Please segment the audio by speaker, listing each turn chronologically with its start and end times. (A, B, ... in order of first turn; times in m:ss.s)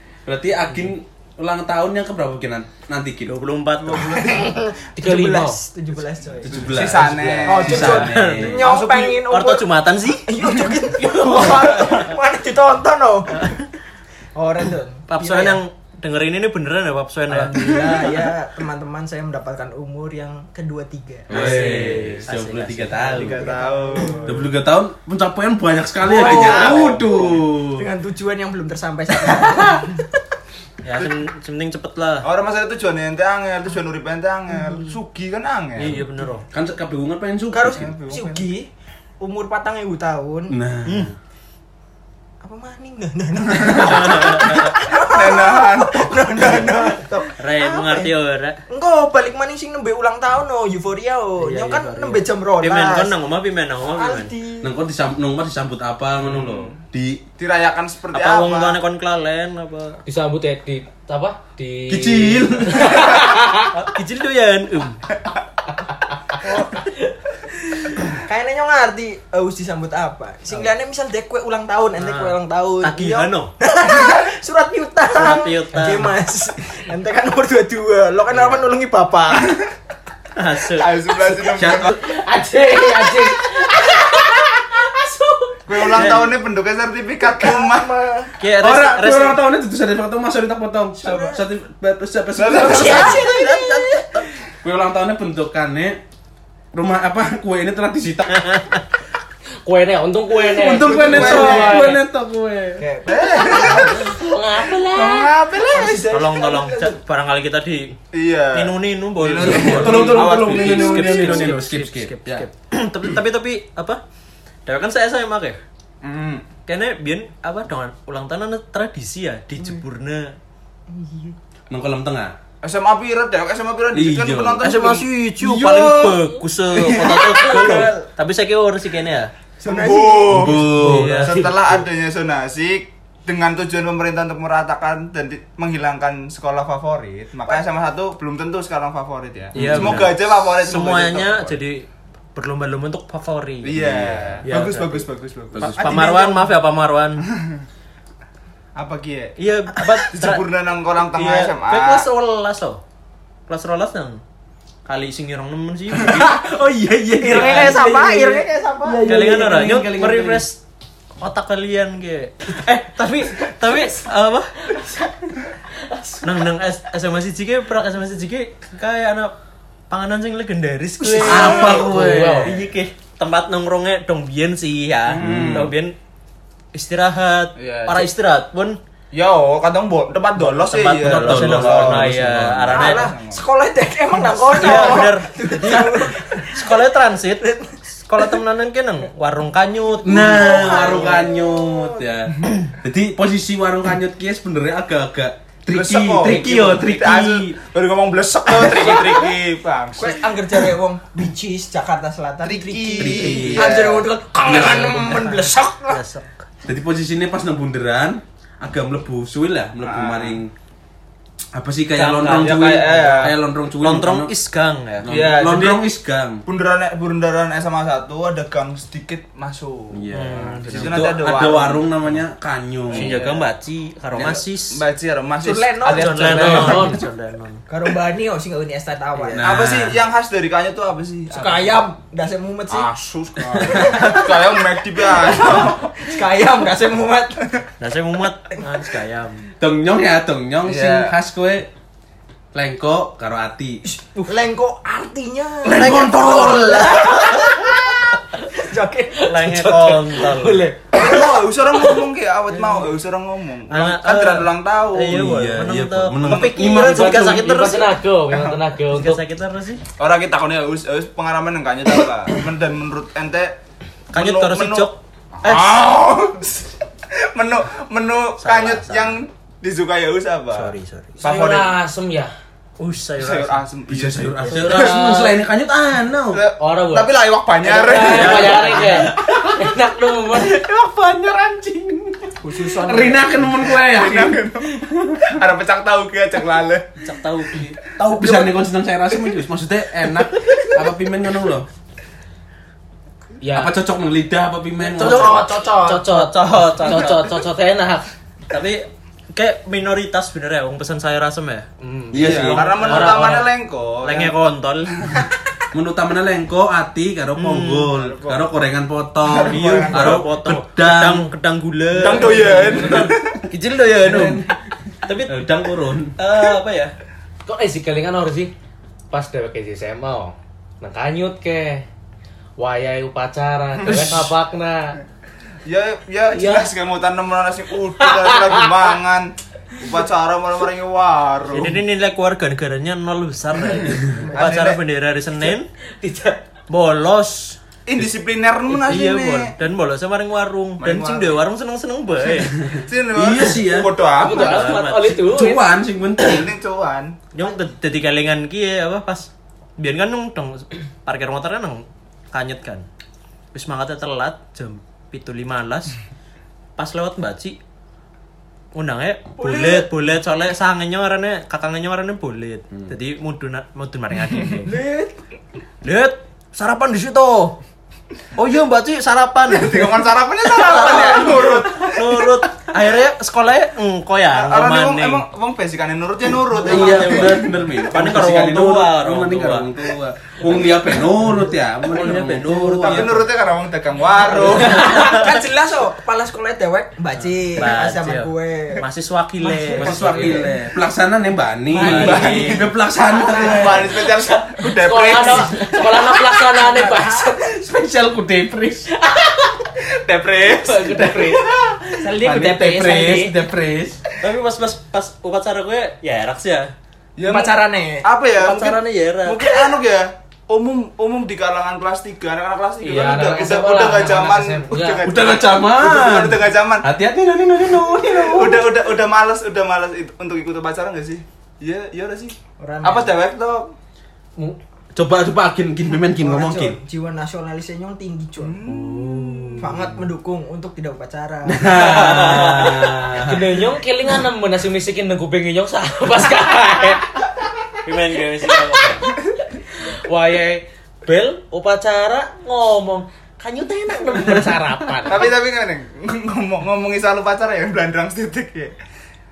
0:00.3-0:03.3 A
0:03.3-0:04.3 B
0:03.8-0:04.6 C
0:04.2-0:06.8 D
0:05.0-0:05.6 E
0:06.4-0:08.7 A
0:06.5-0:08.0 C
0:07.5-0:13.5 D
0:07.7-0:08.7 B
0:08.6-0:09.2 C
0:09.3-0:10.3 B
0:11.0-0:11.6 B
0:11.3-0:11.8 A
0:13.3-0:13.7 B
0:14.4-0:15.6 D
0:15.1-0:18.4 B
0:17.3-0:21.9 D
0:21.3-0:23.5 A
0:21.3-0:23.2 B
0:23.0-0:24.4 D
0:23.1-0:24.4 C
0:24.3-0:27.9 A
0:26.0-0:27.0 D
0:26.1-0:27.4 C
0:27.8-0:30.1 D
0:30.8-0:32.3 B
0:32.2-0:36.0 C
0:35.8-0:36.4 B
0:36.5-0:37.9 A
0:37.5-0:38.7 D
0:37.7-0:38.5 C
0:39.2-0:40.5 D
0:40.5-0:41.2 A
0:40.9-0:41.1 B
0:42.4-0:48.1 D
0:43.6-0:44.0 C
0:43.8-0:44.7 B
0:45.1-0:46.9 C
0:47.4-0:48.6 B
0:48.7-0:53.1 D
0:51.4-0:54.3 B
0:53.9-0:54.7 D
0:54.6-0:57.2 A
0:56.3-0:56.8 C
0:57.4-0:58.8 C
0:58.1-1:00.0 B
1:00.0-1:03.7 E
1:01.9-1:03.2 A
1:03.7-1:05.0 B
1:06.4-1:19.7 D
1:12.0-1:13.5 B
1:15.1-1:16.2 B
1:18.3-1:18.6 B
1:20.4-1:20.9 B
1:20.8-1:21.9 C
1:21.5-1:22.0 A
1:22.0-1:26.1 E
1:25.7-1:27.9 C
1:25.9-1:26.3 B
1:27.2-1:28.4 D
1:28.4-1:29.4 B
1:28.6-1:33.2 A
1:31.0-1:31.4 D
1:32.4-1:33.2 C
1:32.5-1:34.2 D
1:32.8-1:34.2 B
1:34.6-1:36.0 A
1:36.7-1:38.5 A
1:38.3-1:38.8 B
1:39.6-1:42.0 E
1:40.6-1:42.8 A
1:40.9-1:41.7 C
1:41.1-1:41.6 D
1:42.8-1:44.1 D
1:43.1-1:44.1 C
1:43.5-1:45.3 E
1:44.9-1:46.1 C
1:45.7-1:46.9 D
1:46.1-1:48.0 B
1:48.1-1:51.6 C
1:48.5-1:54.0 B
1:49.4-1:52.5 A
1:54.7-1:55.6 B
1:56.0-1:56.5 C
1:56.7-2:00.4 B
2:00.9-2:01.4 D
2:01.7-2:02.4 A
2:02.6-2:06.1 C
2:03.9-2:04.7 A
2:04.6-2:09.3 B
2:06.9-2:07.9 C
2:09.6-2:10.6 D
2:09.6-2:21.6 C
2:10.3-2:11.4 A
2:10.7-2:11.5 B
2:19.5-2:20.1 A
2:19.6-2:23.8 B
2:23.6-2:26.3 C
2:23.7-2:24.4 A
2:24.4-2:25.1 B
2:25.5-2:26.1 A
2:25.6-2:27.2 B
2:27.2-2:27.6 C
2:28.8-2:29.4 C
2:29.4-2:32.8 B
2:30.1-2:32.1 C
2:33.5-2:34.2 B
2:34.9-2:36.4 B
2:35.9-2:38.0 A
2:37.2-2:39.1 D
2:37.2-2:38.4 B
2:38.8-2:40.4 A
2:39.0-2:40.6 B
2:41.2-2:45.1 B
2:46.2-2:49.3 B
2:49.9-2:56.0 B
2:51.0-2:51.9 D
2:51.2-2:52.6 A
2:51.9-2:52.5 E
2:55.1-2:55.7 C
2:55.2-2:55.7 A
2:56.7-2:58.8 B
2:57.6-2:58.1 C
2:59.1-3:02.1 C
3:00.4-3:03.1 B
3:01.0-3:03.0 A
3:02.7-3:06.8 D
3:02.7-3:03.4 C
3:04.6-3:11.2 B
3:04.6-3:05.0 C
3:10.0-3:17.6 A
3:10.0-3:12.1 D
3:15.7-3:20.6 C
3:18.6-3:19.3 D
3:18.8-3:19.2 B
3:20.0-3:26.0 D
3:22.4-3:24.6 C
3:23.0-3:23.9 A
3:24.4-3:25.3 A
3:24.5-3:26.4 B
3:26.6-3:30.5 A
3:29.8-3:30.4 C
3:31.5-3:34.3 A
3:32.0-3:33.3 B
3:32.1-3:33.4 C
3:33.8-3:35.1 B
3:35.0-3:36.4 A
3:35.1-3:35.9 C
3:36.4-3:41.9 C
3:39.9-3:43.2 A
3:40.1-3:41.1 B
3:42.9-3:43.4 C
3:42.9-3:44.8 B
3:44.2-3:46.9 C
3:45.4-3:46.8 D
3:45.8-3:47.6 B
3:46.4-3:47.0 E
3:47.7-3:49.7 D
3:49.3-3:51.8 C
3:49.3-3:50.0 A
3:51.3-3:52.9 D
3:52.7-3:56.0 C
3:53.5-3:54.5 D
3:55.2-3:57.6 D
3:57.8-3:59.5 B
3:59.6-4:01.7 A
4:00.6-4:01.1 C
4:02.5-4:03.8 A
4:03.9-4:09.2 D
4:05.6-4:07.5 A
4:06.8-4:07.6 B
4:09.2-4:11.1 E
4:09.3-4:10.6 B
4:10.9-4:15.2 C
4:13.7-4:18.0 B
4:15.0-4:17.7 A
4:16.2-4:16.7 C
4:16.8-4:19.2 E
4:18.9-4:19.8 B
4:20.0-4:23.6 C
4:24.1-4:25.0 B
4:24.1-4:31.7 C
4:28.4-4:29.2 B
4:30.5-4:31.2 B
4:31.2-4:32.3 E
4:32.8-4:33.6 B
4:33.2-4:35.0 C
4:33.9-4:36.4 A
4:34.5-4:35.0 B
4:34.7-4:35.4 E
4:36.3-4:39.1 C
4:36.6-4:40.5 E
4:38.0-4:39.2 B
4:39.1-4:39.7 A
4:40.3-4:45.3 A
4:42.4-4:43.7 D
4:42.5-4:46.9 C
4:47.0-4:47.9 B
4:48.0-4:51.7 A
4:53.4-4:53.8 E
4:53.5-4:55.5 A
4:54.8-4:58.1 E
4:55.0-4:56.1 D
4:56.1-4:57.3 B
4:58.5-5:01.7 B
5:01.8-5:03.5 E
5:02.1-5:02.7 A
5:02.2-5:04.3 C
5:02.2-5:03.4 B
5:04.0-5:05.0 B
5:05.7-5:11.3 A
5:07.4-5:07.9 B
5:07.9-5:08.5 C
5:09.2-5:10.2 C
5:09.3-5:14.4 B
5:12.0-5:13.4 C
5:12.4-5:13.0 E
5:14.0-5:14.5 A
5:15.1-5:15.4 B
5:15.2-5:16.2 A
5:16.2-5:16.9 B
5:17.5-5:18.5 E
5:19.1-5:21.8 E
5:22.6-5:25.0 E
5:25.6-5:31.8 C
5:26.3-5:26.7 E
5:28.0-5:28.7 E
5:31.5-5:35.7 B
5:34.0-5:34.8 C
5:36.0-5:36.4 E
5:36.7-5:37.6 B
5:37.9-5:39.5 C
5:38.7-5:42.6 B
5:40.8-5:41.4 C
5:42.8-5:44.7 C
5:43.2-5:44.0 A
5:44.2-5:45.6 E
5:44.2-5:45.2 B
5:45.2-5:46.5 A
5:46.2-5:47.2 C
5:47.3-5:52.9 B
5:53.5-5:56.0 B
5:56.8-5:57.6 B
5:58.8-6:04.7 B
5:59.4-5:59.9 D
6:04.6-6:05.1 D
6:05.8-6:07.6 B
6:08.4-6:15.2 B
6:09.5-6:12.4 C
6:14.3-6:17.5 C
6:16.6-6:19.7 B
6:16.6-6:23.3 A
6:21.8-6:23.2 B
6:22.8-6:25.1 C
6:24.3-6:25.4 B
6:24.3-6:28.8 D
6:24.8-6:25.2 E
6:27.6-6:30.5 B
6:29.4-6:30.6 D
6:29.8-6:34.0 A
6:31.8-6:32.6 D
6:31.8-6:32.6 B
6:31.8-6:32.3 E
6:31.8-6:35.9 C
6:33.2-6:34.0 D
6:34.6-6:37.6 E
6:36.0-6:37.3 D
6:37.4-6:38.9 A
6:38.9-6:39.7 E
6:40.0-6:41.1 C
6:40.4-6:41.6 E
6:40.9-6:41.5 A
6:42.0-6:43.4 D
6:42.0-6:44.0 A
6:44.2-6:46.7 B
6:47.2-6:56.9 C
6:47.2-6:48.1 D
6:48.4-6:49.5 B
6:52.8-6:53.2 B
6:52.8-6:55.0 E
6:55.0-6:58.7 A
6:57.9-7:03.7 C
7:02.6-7:03.2 D
7:04.9-7:06.8 A
7:06.2-7:08.6 D
7:08.4-7:09.8 C
7:08.7-7:10.0 A
7:09.6-7:12.3 D
7:11.5-7:13.6 A
7:11.7-7:13.0 B
7:13.2-7:17.1 E
7:17.8-7:19.1 B
7:19.8-7:25.3 E
7:25.1-7:28.8 C